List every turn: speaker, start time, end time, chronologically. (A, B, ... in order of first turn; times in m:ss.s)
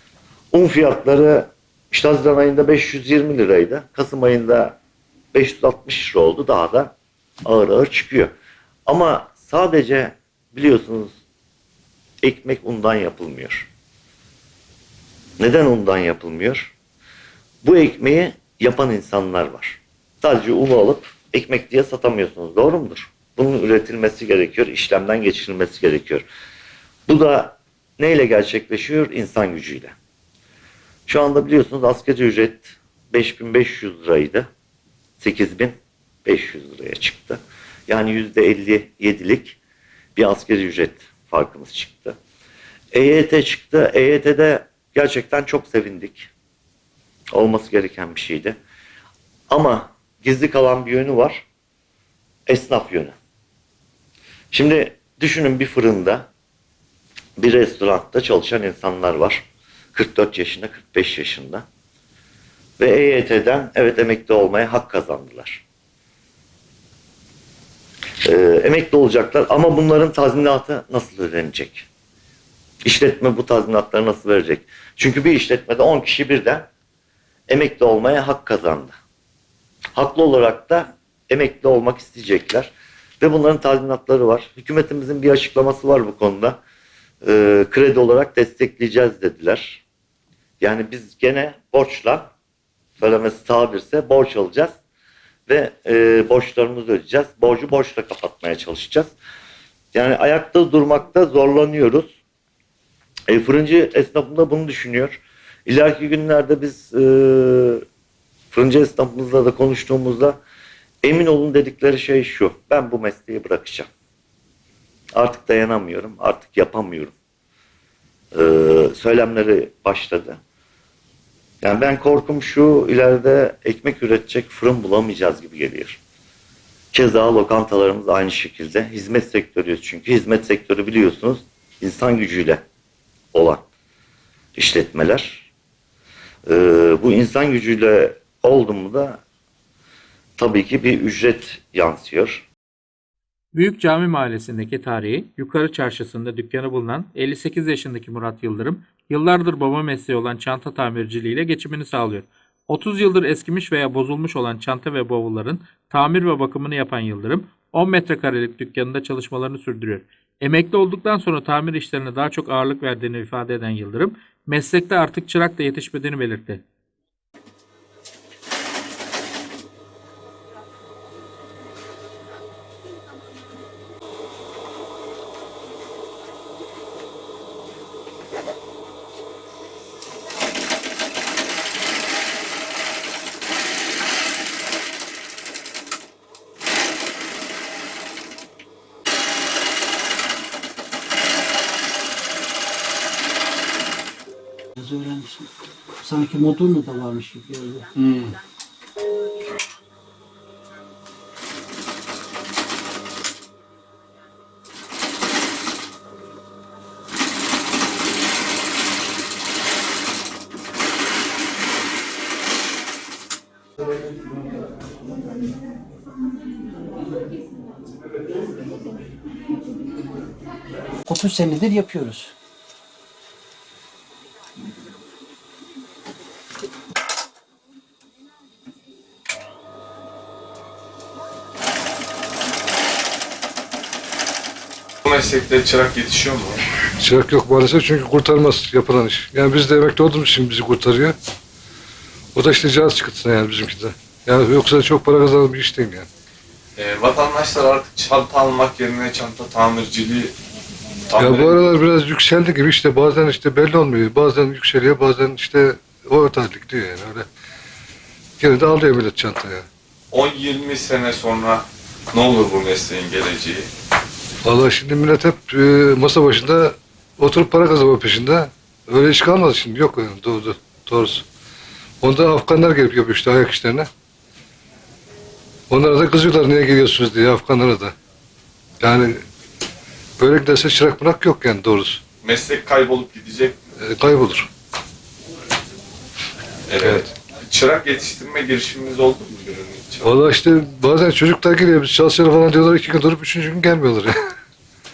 0:00.5-0:04.8 A
0:05.3-0:06.9 A
0:07.4-0:08.3 A
0:08.9-0:11.1 A
0:12.2-0:13.7 A
0:15.4-0:16.7 A
0:17.6-0:26.2 A
0:27.1-0:29.9 A
0:31.0-0:34.5 A
0:35.2-0:39.6 A
0:40.2-0:42.2 A
0:42.9-0:46.3 A
0:47.3-0:48.6 A
0:49.5-0:51.4 A
0:52.5-0:53.1 A
0:54.5-0:56.3 A
0:57.4-1:01.6 A
1:02.8-1:05.6 A
1:08.2-1:11.8 A
1:12.8-1:16.7 A
1:17.5-1:19.0 A
1:19.9-1:26.6 A
1:27.2-1:29.8 A
1:30.6-1:32.3 A
1:33.0-1:34.7 A
1:35.5-1:39.1 A
1:39.9-1:42.1 A
1:43.3-1:47.8 A
1:48.5-1:50.4 A
1:51.0-1:53.9 A
1:55.1-1:57.1 A
1:58.3-2:00.4 A
2:01.6-2:06.0 A
2:06.9-2:12.6 A
2:13.3-2:13.6 A
2:14.6-2:15.5 A
2:16.5-2:19.2 A
2:20.4-2:22.5 A
2:23.5-2:46.6 B
3:14.8-3:15.5 C
3:16.0-3:17.9 C
3:41.0-3:42.3 C
3:55.0-3:56.6 D
3:57.0-4:01.2 E
4:02.3-4:06.1 E
4:06.8-4:10.3 D
4:11.1-4:11.7 D
4:11.2-4:17.3 E
4:18.4-4:19.6 E
4:20.1-4:23.7 D
4:24.4-4:31.2 E
4:32.0-4:33.9 E
4:35.7-4:37.9 E
4:38.8-4:39.2 E
4:40.2-4:42.0 E
4:42.2-4:43.6 D
4:43.8-4:44.5 E
4:46.7-4:50.1 D
4:46.8-4:47.1 E
4:50.0-4:54.1 E